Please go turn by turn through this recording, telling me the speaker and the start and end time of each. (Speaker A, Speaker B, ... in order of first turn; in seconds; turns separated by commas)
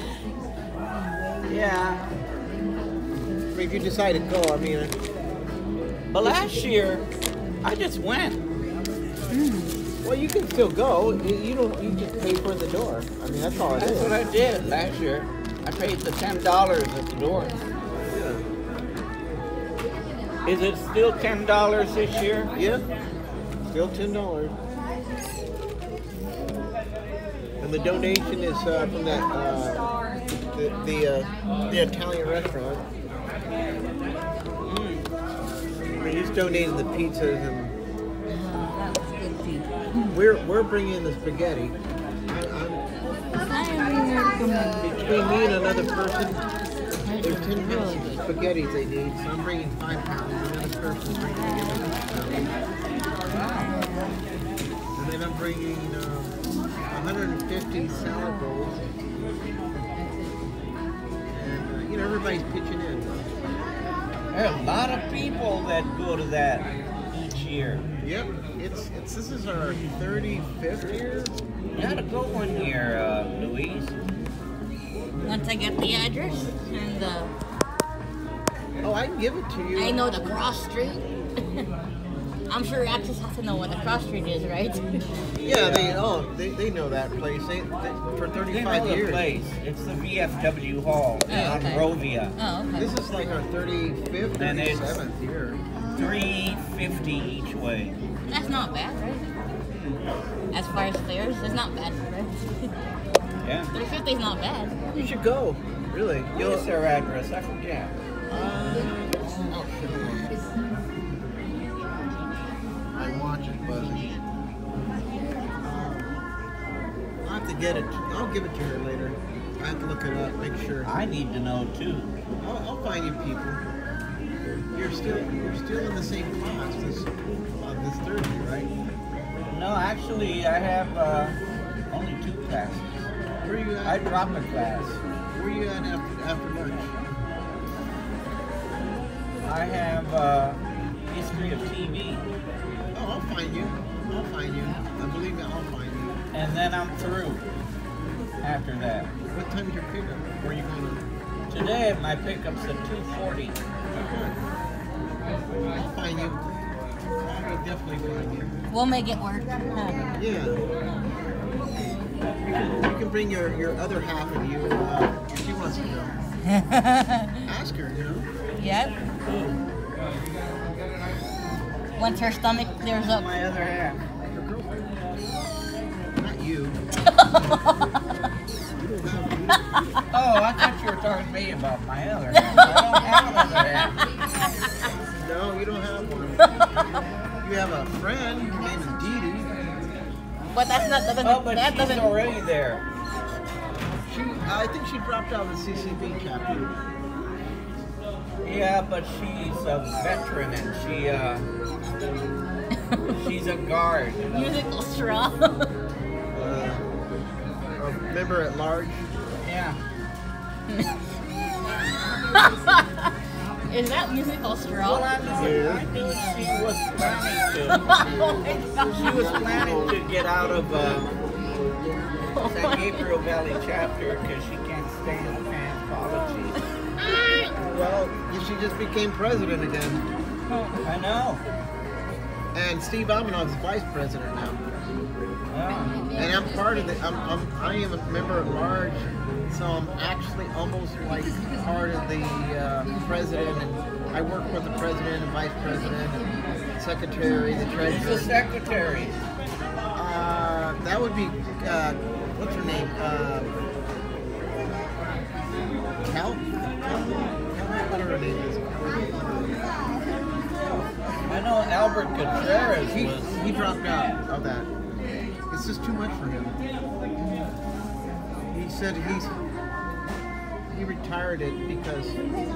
Speaker A: 1.5-2.1, Speaker B: 3.5-4.9, Speaker A: 6.1-7.1, Speaker A: 7.6-8.4, Speaker C: 9.3-9.7, Speaker B: 10.0-14.2, Speaker A: 13.8-17.6, Speaker B: 18.1-18.4, Speaker A: 20.5-22.5, Speaker B: 22.6-22.9, Speaker B: 23.7-24.6, Speaker B: 27.6-32.8, Speaker A: 34.7-35.1, Speaker B: 36.0-37.8, Speaker C: 38.3-40.1, Speaker B: 40.1-41.8, Speaker B: 42.3-42.8, Speaker C: 43.4-44.9, Speaker B: 44.9-46.5, Speaker C: 47.0-48.2, Speaker B: 47.2-52.5, Speaker A: 53.3-53.7, Speaker C: 53.5-54.2, Speaker B: 55.0-58.9, Speaker C: 57.7-58.7, Speaker B: 61.3-63.2, Speaker A: 64.3-67.8, Speaker B: 68.0-71.4, Speaker A: 71.8-73.9, Speaker C: 75.2-77.3, Speaker B: 78.8-80.1, Speaker C: 79.8-81.1, Speaker C: 82.5-85.0, Speaker B: 85.4-89.2, Speaker A: 85.5-86.0, Speaker A: 88.5-92.3, Speaker C: 91.3-92.9, Speaker B: 92.8-95.6, Speaker A: 94.4-95.0, Speaker C: 95.7-96.3, Speaker A: 96.0-98.0, Speaker C: 98.3-99.3, Speaker A: 99.7-100.0, Speaker C: 100.5-102.7, Speaker A: 103.4-103.7, Speaker C: 103.7-104.8, Speaker B: 104.9-106.7, Speaker A: 106.3-107.9, Speaker B: 108.3-110.3, Speaker B: 112.9-114.2, Speaker B: 115.6-116.2, Speaker B: 117.2-121.0, Speaker A: 120.8-122.1, Speaker B: 122.4-123.6, Speaker B: 124.7-128.7, Speaker A: 129.5-131.4, Speaker A: 131.9-133.1, Speaker B: 133.4-134.0, Speaker A: 133.9-135.0, Speaker B: 135.3-136.9, Speaker A: 139.4-142.3, Speaker B: 142.9-146.2, Speaker A: 146.3-147.4, Speaker A: 148.4-149.1, Speaker B: 149.3-151.0, Speaker A: 151.5-153.6, Speaker B: 153.9-154.4, Speaker B: 155.7-156.4, Speaker B: 157.2-158.5, Speaker C: 158.7-160.1, Speaker B: 160.1-160.6, Speaker B: 162.6-166.2, Speaker C: 166.5-167.3, Speaker B: 167.5-168.3, Speaker C: 168.6-169.0, Speaker A: 169.2-169.6, Speaker C: 172.0-173.3, Speaker A: 173.0-174.0, Speaker B: 174.2-174.9, Speaker B: 176.2-176.8, Speaker B: 179.0-179.5, Speaker A: 180.1-184.0, Speaker C: 182.3-183.9, Speaker B: 185.2-186.4, Speaker B: 187.4-189.6, Speaker C: 190.5-192.2, Speaker A: 191.2-192.8, Speaker B: 194.1-196.7, Speaker A: 198.4-201.5, Speaker A: 203.1-204.5, Speaker C: 204.3-205.7, Speaker B: 206.3-206.8, Speaker B: 207.8-209.1, Speaker A: 209.4-209.8, Speaker C: 213.7-215.1, Speaker A: 214.8-217.9, Speaker B: 215.3-215.9, Speaker C: 217.7-219.6, Speaker B: 218.9-220.0, Speaker A: 219.0-221.1, Speaker C: 222.3-223.1, Speaker A: 222.4-226.6, Speaker B: 227.0-230.0, Speaker A: 230.8-231.4, Speaker B: 232.5-234.6, Speaker A: 235.5-236.0, Speaker B: 236.1-248.3, Speaker C: 247.3-247.6, Speaker A: 247.8-249.2, Speaker B: 249.9-253.5, Speaker B: 256.1-259.6, Speaker A: 261.3-263.3, Speaker B: 262.9-264.7, Speaker B: 265.5-266.6, Speaker B: 268.5-269.4, Speaker B: 270.7-272.2